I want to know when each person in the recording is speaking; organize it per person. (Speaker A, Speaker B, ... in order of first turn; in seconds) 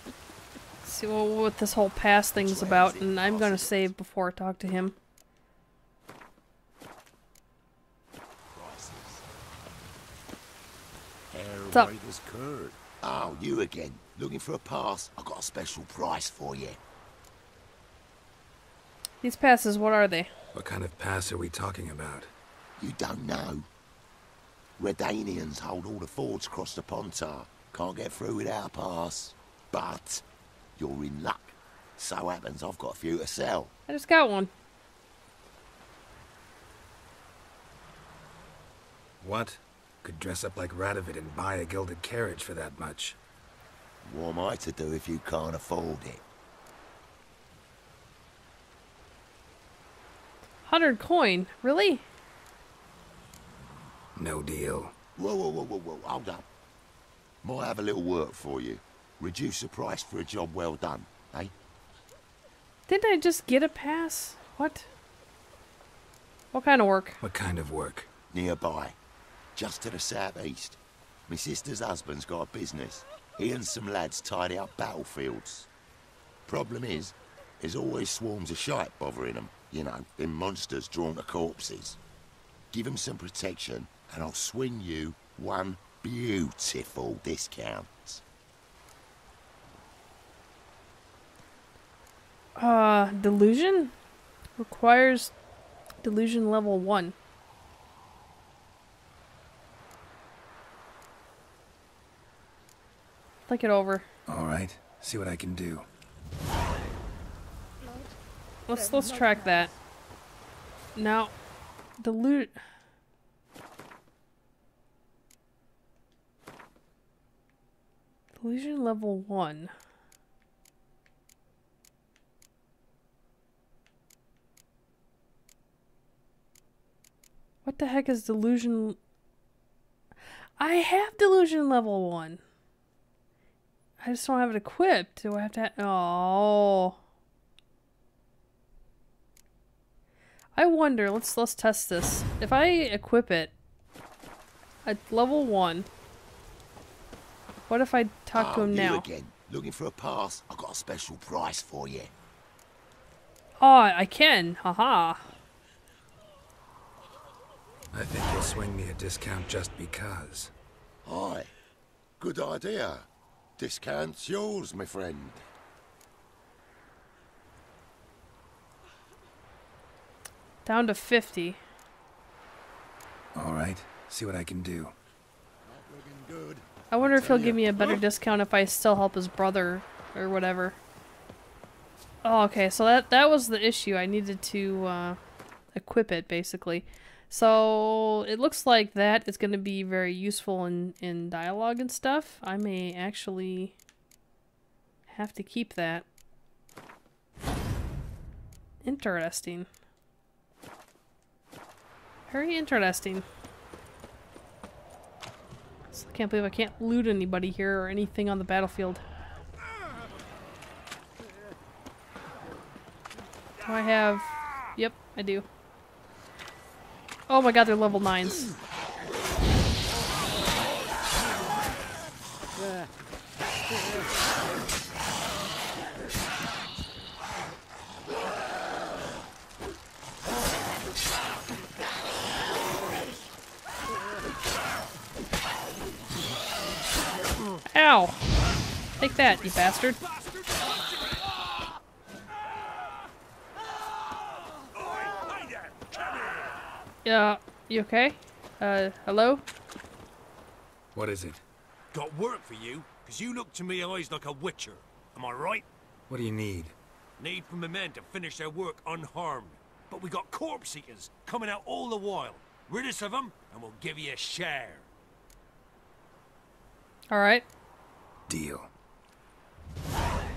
Speaker A: 0.8-5.0, 19.2-20.3, 33.9-34.5, 50.7-52.0, 62.9-64.8, 66.5-67.2, 92.6-93.9, 94.6-95.3, 96.0-97.1, 103.5-104.0, 108.7-109.7, 111.0-111.3, 112.0-112.6, 118.4-119.7, 127.6-129.0, 130.6-132.4, 134.0-137.0, 140.6-143.5, 144.8-145.9, 147.7-149.1, 153.6-155.2, 170.6-171.6, 176.9-180.8, 182.2-185.2, 185.7-193.7, 195.1-196.0, 198.8-199.7, 202.3-203.2, 205.9-209.0, 213.6-215.4, 217.3-218.5, 237.7-238.2, 239.0-240.0, 247.0-249.4, 267.1-267.4
Speaker B: 2.3-3.9, 8.5-9.2, 11.3-16.8, 22.8-23.7, 24.8-30.2, 30.8-33.7, 44.0-46.2, 55.2-56.5, 57.4-61.5, 68.3-69.0, 69.5-75.7, 76.5-82.0, 82.7-88.2, 148.3-152.1, 161.0-161.5, 162.2-163.1, 163.6-165.4, 175.7-176.6
Speaker C: 20.5-22.3, 39.2-43.2, 54.2-54.9, 67.2-68.1, 104.3-105.8, 157.9-160.5, 173.3-174.9, 250.9-251.4, 256.1-256.7, 268.3-268.7
Speaker D: 239.0-241.1, 244.8-246.6, 251.9-255.7, 257.2-264.9